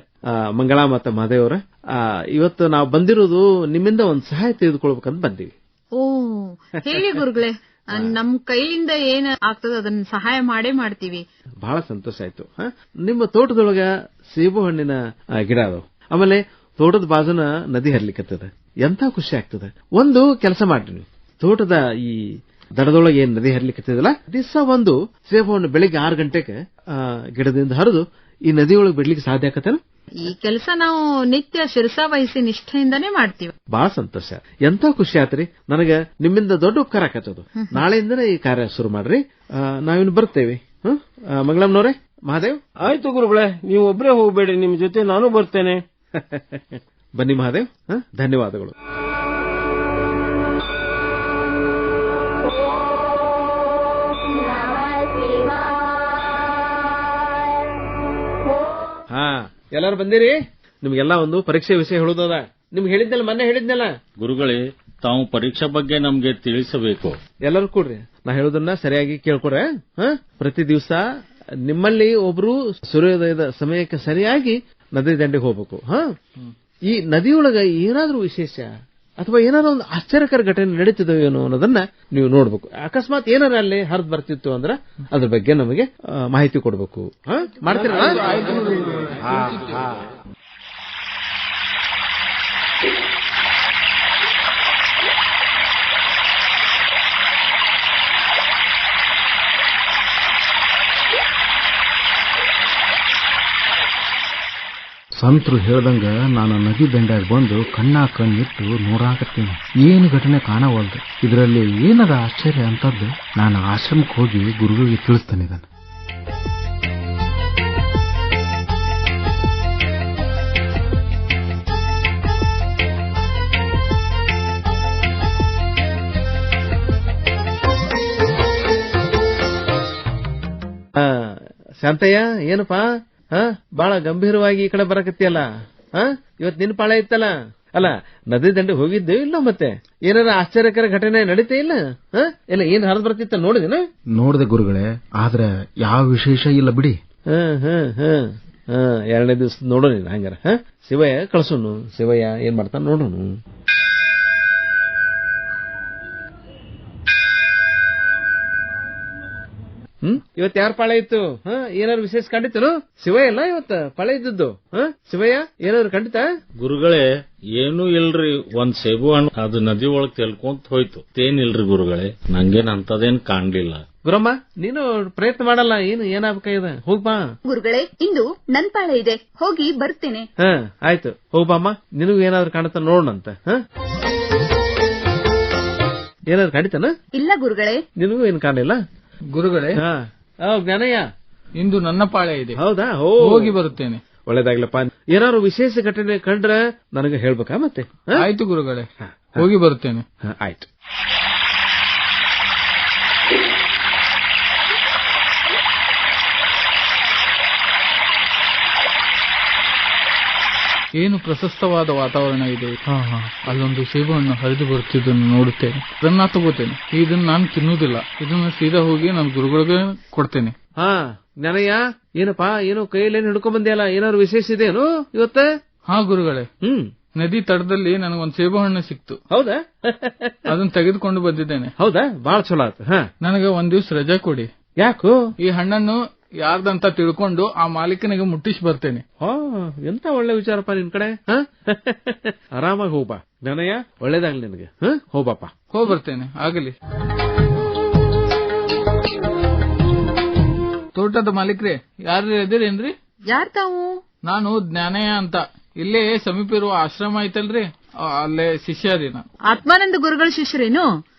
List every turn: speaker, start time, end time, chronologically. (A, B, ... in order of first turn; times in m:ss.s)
0:00.3-0:05.5 A
0:06.0-0:11.2 B
0:06.9-0:07.2 A
0:11.6-0:22.2 A
0:22.8-0:29.8 A
0:30.2-0:33.5 B
0:33.7-0:42.6 A
0:37.6-0:37.8 B
0:42.8-0:45.8 C
0:47.2-0:48.7 A
0:59.1-1:03.9 A
1:04.2-1:07.2 D
1:07.4-1:11.0 A
1:11.6-1:16.0 A
1:16.9-1:28.3 A
1:27.7-1:29.8 E
1:29.2-1:29.9 A
1:45.2-1:55.6 F
2:11.0-2:23.8 A
2:24.2-2:26.9 F
2:27.3-2:33.4 A
2:40.0-2:46.3 A
2:46.6-2:53.8 D
2:54.0-2:57.2 A
2:57.4-3:00.2 G
3:00.4-3:03.6 A
3:06.3-3:06.9 A
3:07.1-3:07.8 G
3:08.0-3:08.8 A
3:09.3-3:09.8 E
3:09.8-3:11.0 A
3:11.6-3:12.6 E
3:12.6-3:13.5 A
3:13.2-3:14.0 E
3:14.3-3:18.2 A
3:18.1-3:20.0 E
3:19.0-3:19.4 A
3:20.2-3:20.7 A
3:31.0-3:40.5 E
3:40.8-3:45.5 A
3:45.9-3:46.5 E
3:46.6-3:46.9 A
3:47.2-3:49.2 E
3:49.3-3:50.5 A
3:50.5-3:51.7 E
3:51.8-3:53.1 A
3:53.2-3:54.5 E
3:54.8-3:55.2 A
3:55.4-3:59.0 E
3:59.2-4:05.5 A
4:05.7-4:06.7 E
4:10.9-4:12.9 E
4:13.3-4:13.9 B
4:14.3-4:19.2 E
4:19.5-4:20.9 B